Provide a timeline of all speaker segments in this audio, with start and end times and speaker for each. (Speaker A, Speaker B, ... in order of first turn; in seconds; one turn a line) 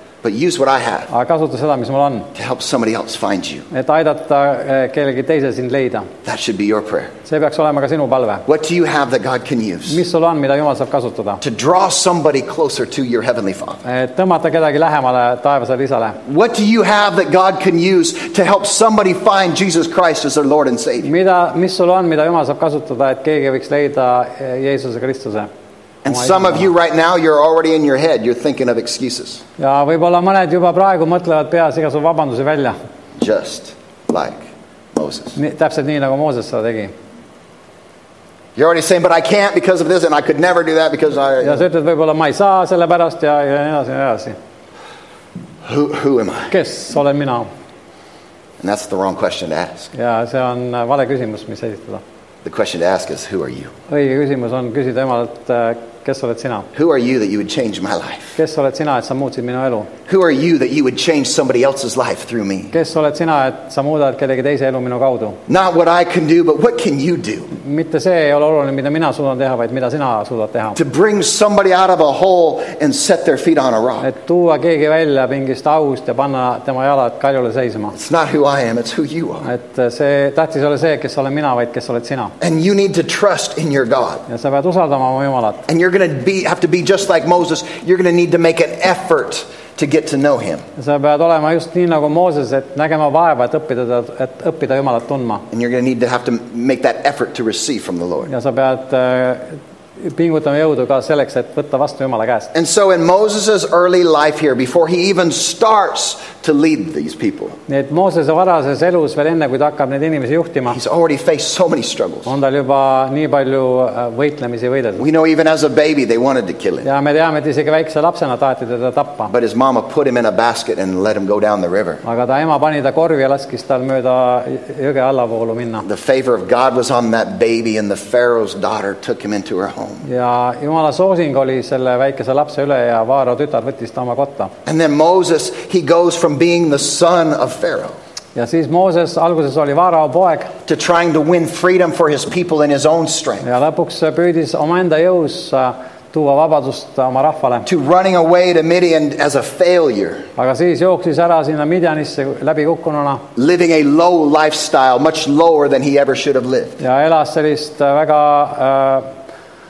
Speaker A: 0.2-1.1
Speaker B: 1.1-2.3
Speaker A: 2.4-3.7
Speaker B: 3.7-6.1
Speaker A: 6.2-7.1
Speaker B: 7.3-8.4
Speaker A: 8.5-10.0
Speaker B: 9.9-11.4
Speaker A: 11.4-13.8
Speaker B: 13.8-16.2
Speaker A: 16.2-21.1
Speaker B: 21.0-25.5
Speaker A: 26.0-29.4
Speaker B: 26.1-26.6
Speaker B: 29.6-32.8
Speaker A: 33.2-34.4
Speaker A: 34.9-35.4
Speaker B: 35.4-36.9
Speaker A: 38.6-41.6
Speaker B: 41.4-44.4
Speaker A: 45.6-46.5
Speaker B: 46.5-47.5
Speaker A: 48.6-49.9
Speaker B: 49.9-52.0
Speaker A: 52.4-53.7
Speaker B: 53.9-56.7
Speaker A: 56.7-58.4
Speaker B: 58.4-59.9
Speaker A: 60.1-62.7
Speaker B: 62.7-65.4
Speaker A: 65.5-67.5
Speaker B: 67.5-70.8
Speaker A: 70.8-74.1
Speaker B: 74.0-78.0
Speaker A: 77.9-79.5
Speaker B: 79.4-82.3
Speaker A: 82.4-84.2
Speaker B: 84.3-85.6
Speaker A: 85.7-90.6
Speaker B: 90.8-95.5
Speaker A: 95.5-98.3
Speaker B: 98.3-102.5
Speaker A: 102.5-107.6
Speaker B: 107.7-110.8
Speaker A: 110.7-112.3
Speaker B: 112.3-115.0
Speaker A: 115.0-116.9
Speaker B: 116.8-119.3
Speaker A: 119.3-122.0
Speaker B: 122.0-125.9
Speaker A: 125.8-130.1
Speaker B: 130.0-134.5
Speaker A: 134.7-138.0
Speaker B: 138.4-140.5
Speaker A: 140.7-143.5
Speaker B: 143.4-147.7
Speaker A: 147.7-150.2
Speaker B: 150.4-153.2
Speaker A: 153.4-156.8
Speaker B: 156.8-159.1